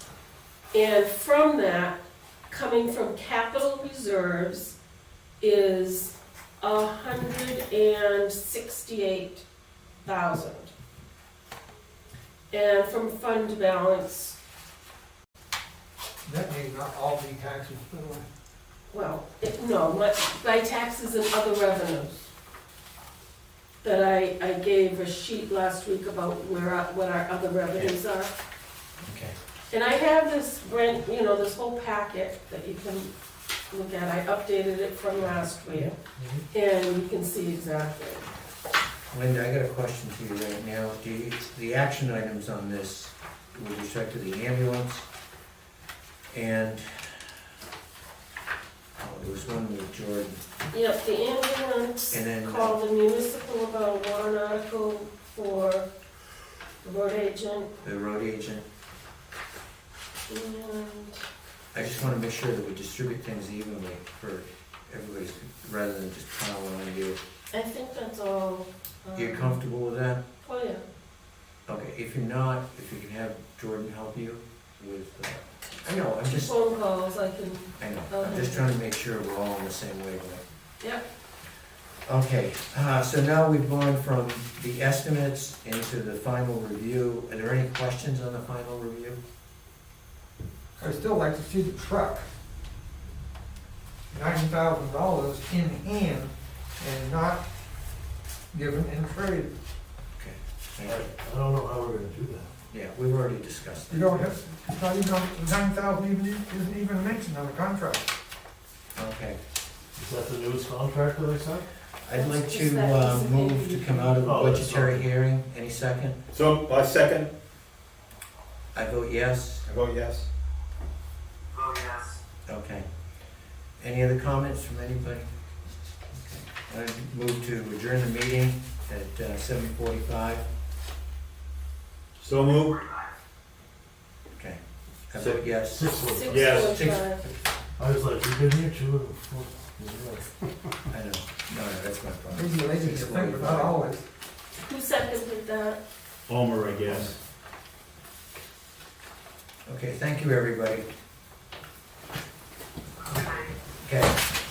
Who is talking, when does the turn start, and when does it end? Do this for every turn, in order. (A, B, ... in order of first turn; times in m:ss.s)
0:00.7-0:04.8 A
0:05.4-0:09.4 A
0:10.0-0:10.7 A
0:12.5-0:14.4 A
0:16.2-0:18.3 B
0:18.9-0:22.3 A
0:23.8-0:28.3 A
0:29.0-0:29.4 C
0:29.7-0:33.1 A
0:33.7-0:36.0 A
0:36.5-0:38.3 A
0:39.1-0:45.0 C
0:46.3-0:47.2 C
0:49.0-0:50.4 C
0:50.7-0:55.9 A
0:52.1-0:52.8 C
0:56.8-0:57.7 A
0:57.8-0:58.6 C
1:00.3-1:01.2 A
1:01.7-1:07.2 C
1:07.5-1:09.6 A
1:09.1-1:10.2 C
1:10.4-1:10.8 A
1:11.7-1:16.5 C
1:16.2-1:18.7 A
1:17.8-1:20.4 C
1:22.0-1:29.2 C
1:30.8-1:32.2 B
1:34.1-1:37.4 B
1:38.5-1:39.5 B
1:40.2-1:41.0 C
1:40.8-1:42.5 D
1:42.7-1:44.2 C
1:43.9-1:48.1 B
1:48.9-1:49.4 C
1:50.0-1:51.7 D
1:52.0-1:56.2 C
1:52.1-1:54.1 A
1:54.2-1:55.0 D
1:56.3-1:57.3 E
1:58.7-1:59.6 C
1:59.6-2:00.3 E
2:01.6-2:02.2 E
2:02.4-2:02.8 C
2:03.8-2:05.3 C
2:06.1-2:10.4 C
2:12.2-2:13.1 E
2:14.4-2:17.4 C
2:15.2-2:15.4 E
2:15.6-2:16.7 D
2:15.9-2:17.2 A
2:16.3-2:16.7 E
2:17.8-2:20.3 D
2:20.9-2:23.8 C
2:22.3-2:24.0 B
2:24.6-2:25.8 A
2:26.3-2:27.2 E
2:29.6-2:30.9 C
2:33.8-2:34.1 C